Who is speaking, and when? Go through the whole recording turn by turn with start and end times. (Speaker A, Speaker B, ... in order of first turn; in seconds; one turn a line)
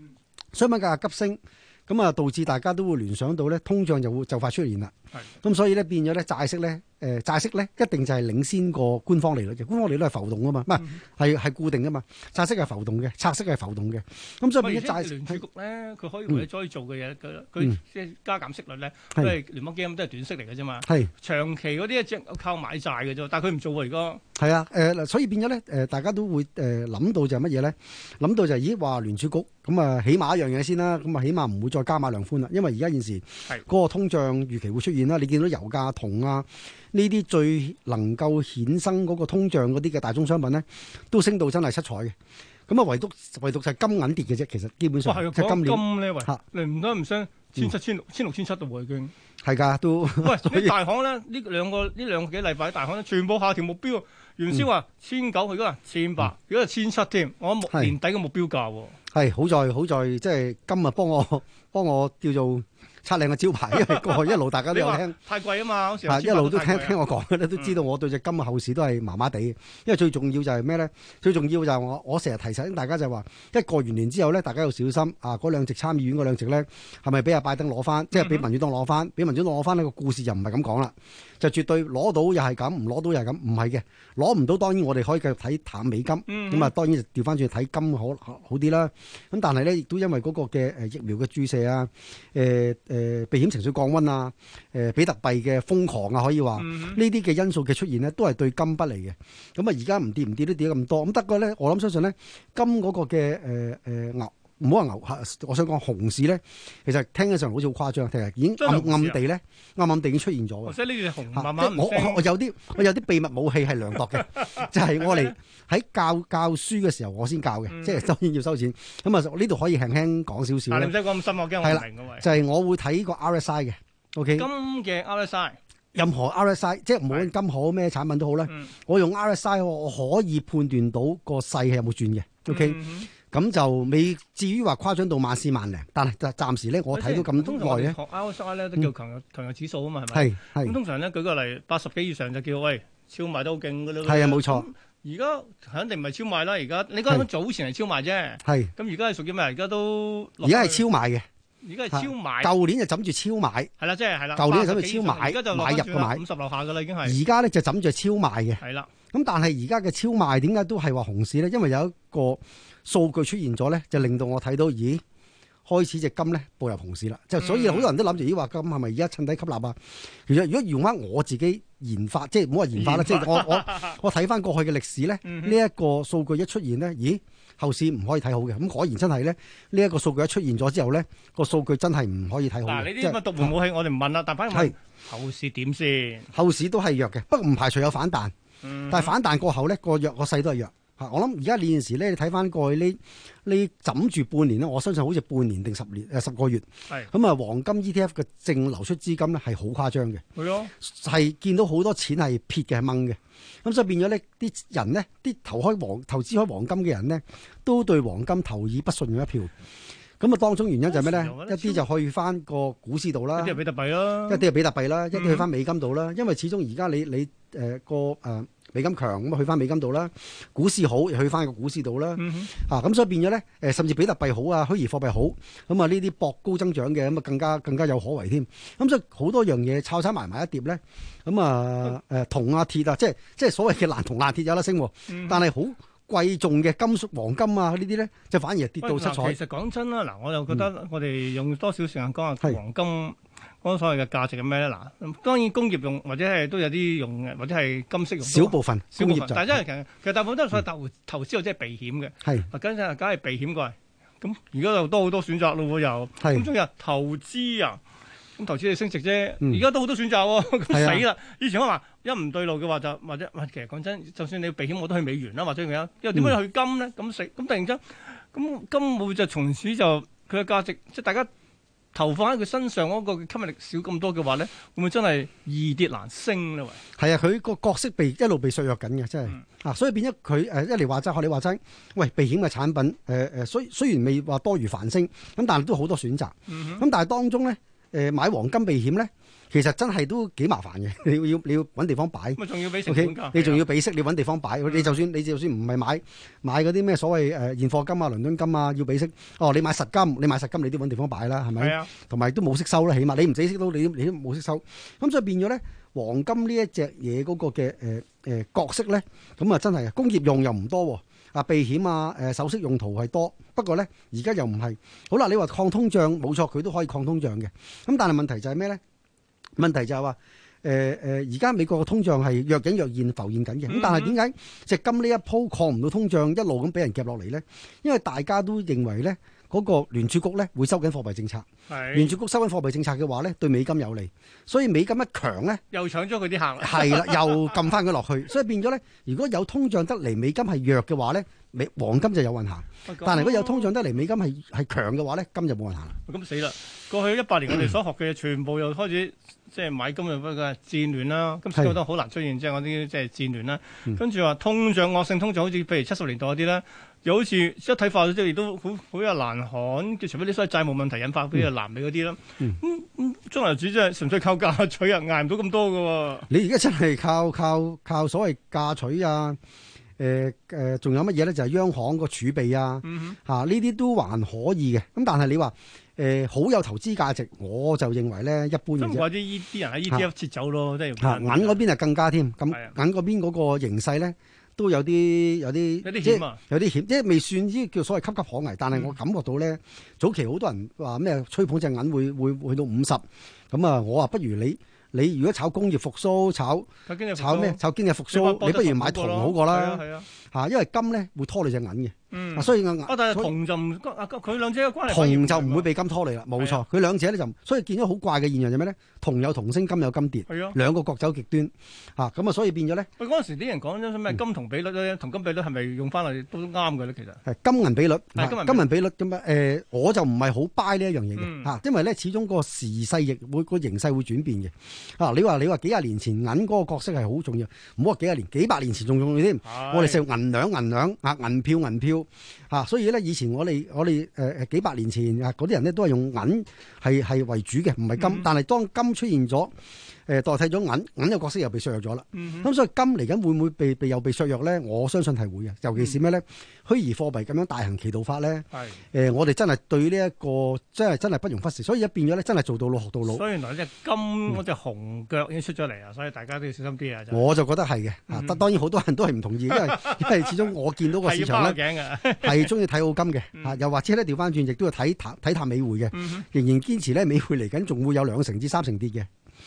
Speaker A: 0.5-15.4
Speaker B: 14.6-24.2
Speaker A: 24.4-42.1
Speaker A: 42.7-46.4
Speaker B: 45.0-49.1
Speaker A: 49.4-50.8
Speaker B: 50.2-59.0
Speaker A: 57.7-57.9
Speaker A: 59.1-65.2
Speaker B: 63.7-67.0
Speaker A: 66.1-110.8
Speaker B: 78.1-78.5
Speaker B: 86.3-86.7
Speaker B: 96.6-97.0
Speaker B: 108.6-109.2
Speaker B: 110.6-112.3
Speaker A: 111.3-121.0
Speaker B: 114.2-115.3
Speaker B: 117.7-118.1
Speaker B: 120.7-122.3
Speaker A: 121.6-124.5
Speaker B: 124.3-125.6
Speaker A: 125.9-138.0
Speaker B: 132.5-133.1
Speaker B: 136.9-150.8
Speaker A: 140.1-140.8
Speaker A: 144.0-144.7
Speaker A: 148.4-148.7
Speaker A: 150.4-151.2
Speaker B: 151.6-152.5
Speaker A: 151.9-153.7
Speaker B: 153.8-157.2
Speaker A: 154.3-156.2
Speaker A: 157.0-165.0
Speaker B: 158.6-158.9
Speaker A: 165.7-183.5
Speaker B: 167.4-167.9
Speaker B: 172.7-173.9
Speaker B: 175.2-175.6
Speaker B: 182.7-186.3
Speaker A: 186.3-188.3
Speaker B: 188.6-189.2
Speaker A: 188.9-200.2
Speaker B: 200.3-200.7
Speaker A: 200.8-209.5
Speaker A: 210.2-213.6
Speaker B: 210.9-211.8
Speaker B: 213.3-214.4
Speaker A: 214.2-239.4
Speaker B: 215.1-215.4
Speaker B: 222.2-222.5
Speaker B: 235.1-235.4
Speaker B: 238.8-257.8
Speaker A: 248.2-249.6
Speaker A: 256.2-256.5
Speaker B: 258.4-271.3
Speaker A: 260.7-261.0
Speaker B: 271.9-276.8
Speaker A: 277.0-318.8
Speaker B: 286.5-286.9
Speaker B: 292.4-293.6
Speaker B: 301.6-301.9
Speaker A: 319.6-335.6
Speaker B: 323.7-324.2
Speaker B: 331.7-332.1
Speaker B: 335.7-337.5
Speaker A: 336.6-345.9
Speaker B: 342.8-343.7
Speaker B: 346.1-366.3
Speaker A: 366.3-369.4
Speaker A: 370.0-379.1
Speaker B: 372.8-373.2
Speaker B: 378.8-381.6
Speaker A: 381.0-403.3
Speaker B: 382.5-382.7
Speaker B: 385.8-386.4
Speaker B: 396.9-400.1
Speaker B: 402.1-405.7
Speaker A: 404.9-412.9
Speaker B: 406.4-406.6
Speaker B: 410.3-410.6
Speaker B: 413.0-417.2
Speaker A: 417.2-439.5
Speaker B: 418.1-418.7
Speaker B: 421.1-421.5
Speaker B: 429.4-430.0
Speaker B: 438.0-438.2
Speaker A: 440.1-453.2
Speaker B: 442.1-442.5
Speaker B: 448.5-448.8
Speaker B: 453.0-457.3
Speaker A: 457.1-461.6
Speaker B: 458.1-458.4
Speaker B: 459.5-462.5
Speaker A: 462.2-469.1
Speaker B: 465.9-466.2